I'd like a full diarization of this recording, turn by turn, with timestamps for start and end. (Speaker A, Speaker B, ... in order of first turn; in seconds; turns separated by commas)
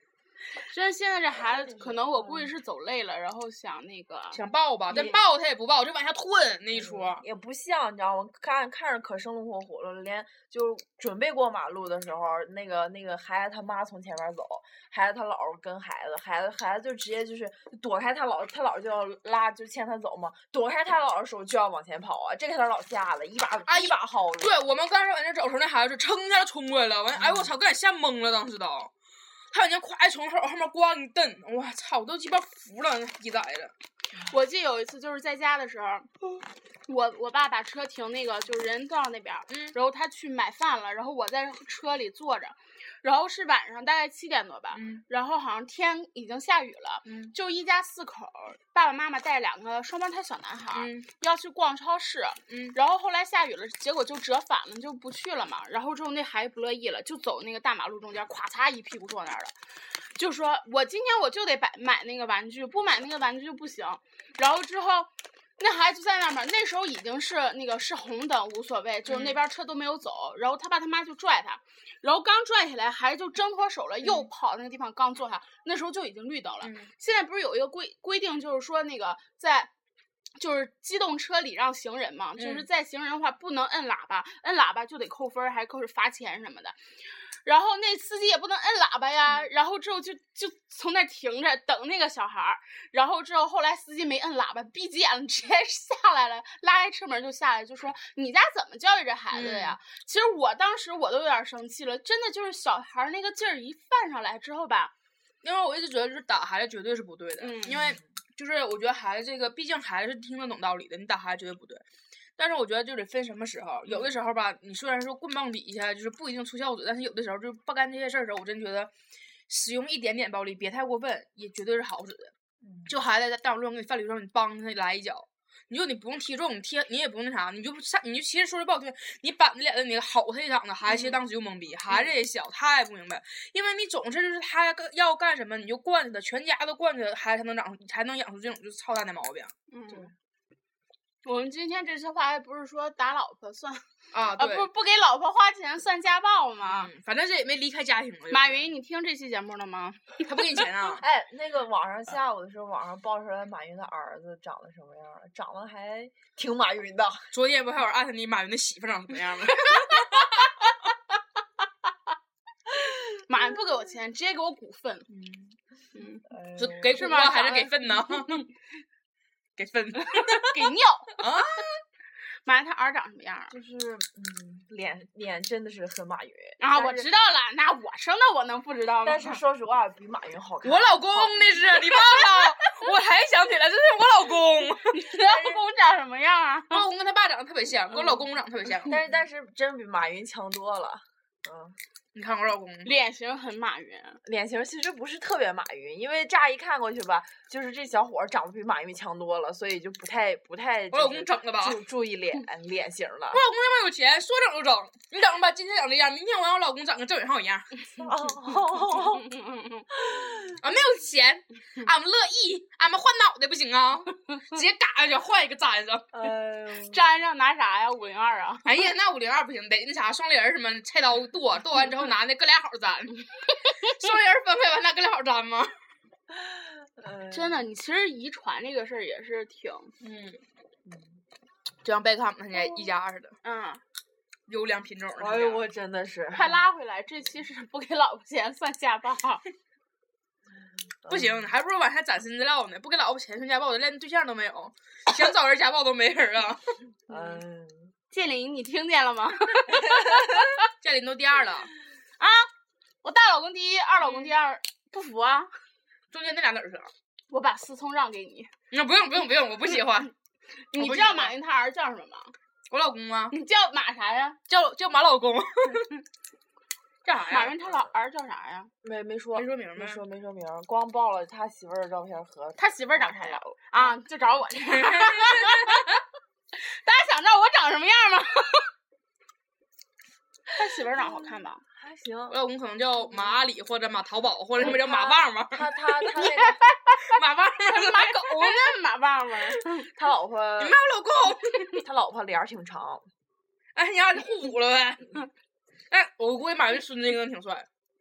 Speaker A: 0.6-5.2, Speaker B: 1.4-2.5, Speaker C: 4.3-7.2, Speaker B: 6.7-24.6, Speaker C: 23.6-28.9, Speaker B: 27.1-27.5, Speaker C: 29.5-33.7, Speaker A: 34.3-79.7, Speaker C: 39.5-39.7, Speaker C: 44.7-45.0, Speaker C: 47.0-47.3, Speaker C: 50.7-51.1, Speaker C: 52.5-52.8, Speaker C: 69.0-69.4, Speaker C: 74.0-74.3, Speaker C: 76.6-76.9, Speaker A: 80.4-104.9, Speaker C: 82.4-82.7, Speaker C: 99.3-99.8, Speaker C: 105.4-111.8, Speaker A: 107.4-107.8, Speaker C: 112.4-118.9, Speaker C: 119.5-122.3, Speaker B: 122.7-122.9, Speaker C: 122.9-139.5, Speaker A: 130.9-131.1, Speaker A: 139.7-140.1, Speaker A: 141.2-146.9, Speaker C: 144.1-144.7, Speaker C: 146.7-148.7, Speaker A: 148.3-150.4, Speaker C: 150.2-151.0, Speaker B: 151.0-157.3, Speaker C: 157.3-160.7, Speaker A: 163.2-165.1, Speaker C: 165.1-165.6, Speaker A: 165.9-166.2, Speaker B: 166.3-167.0, Speaker C: 166.6-168.4, Speaker A: 166.9-168.4, Speaker C: 169.6-170.6, Speaker A: 170.1-171.2, Speaker C: 171.2-171.8, Speaker A: 172.4-173.5, Speaker B: 173.5-177.1, Speaker A: 176.6-179.4, Speaker B: 179.0-181.4, Speaker C: 180.6-185.6, Speaker A: 184.9-186.8, Speaker C: 186.7-189.0, Speaker B: 188.8-191.8, Speaker C: 192.1-192.9, Speaker A: 192.8-194.2, Speaker B: 194.2-203.4, Speaker C: 200.9-201.8, Speaker C: 203.3-207.7, Speaker B: 207.9-209.2, Speaker A: 208.9-209.9, Speaker C: 210.6-216.1, Speaker B: 216.1-217.1, Speaker A: 216.8-218.7, Speaker C: 218.6-225.7, Speaker B: 227.0-227.7, Speaker A: 227.3-229.9, Speaker C: 230.0-230.4, Speaker B: 230.8-231.2, Speaker C: 231.8-233.4, Speaker A: 233.4-233.8, Speaker C: 234.5-235.7, Speaker B: 235.2-236.6, Speaker A: 236.3-239.4, Speaker B: 240.6-241.5, Speaker C: 241.1-246.6, Speaker B: 247.1-247.9, Speaker A: 247.1-247.4, Speaker A: 248.1-250.6, Speaker C: 250.8-251.7, Speaker A: 252.2-252.5, Speaker A: 253.0-255.5, Speaker C: 254.0-254.3, Speaker C: 256.1-256.9, Speaker A: 257.3-258.5, Speaker C: 258.7-260.1, Speaker A: 260.7-262.3, Speaker C: 260.7-261.3, Speaker C: 262.7-263.4, Speaker A: 263.3-264.4, Speaker C: 264.5-265.9, Speaker C: 267.0-267.6, Speaker A: 267.3-268.7, Speaker B: 268.8-273.9, Speaker C: 269.3-270.0, Speaker A: 272.6-275.9, Speaker C: 274.7-276.0, Speaker A: 276.5-278.7, Speaker A: 280.5-281.6, Speaker B: 280.9-282.4, Speaker C: 282.3-286.3, Speaker B: 283.0-283.4, Speaker B: 284.6-286.6, Speaker A: 286.1-289.9, Speaker C: 287.1-288.7, Speaker B: 289.9-290.8, Speaker C: 290.6-291.8, Speaker B: 291.8-293.1, Speaker C: 293.8-295.2, Speaker C: 295.9-297.7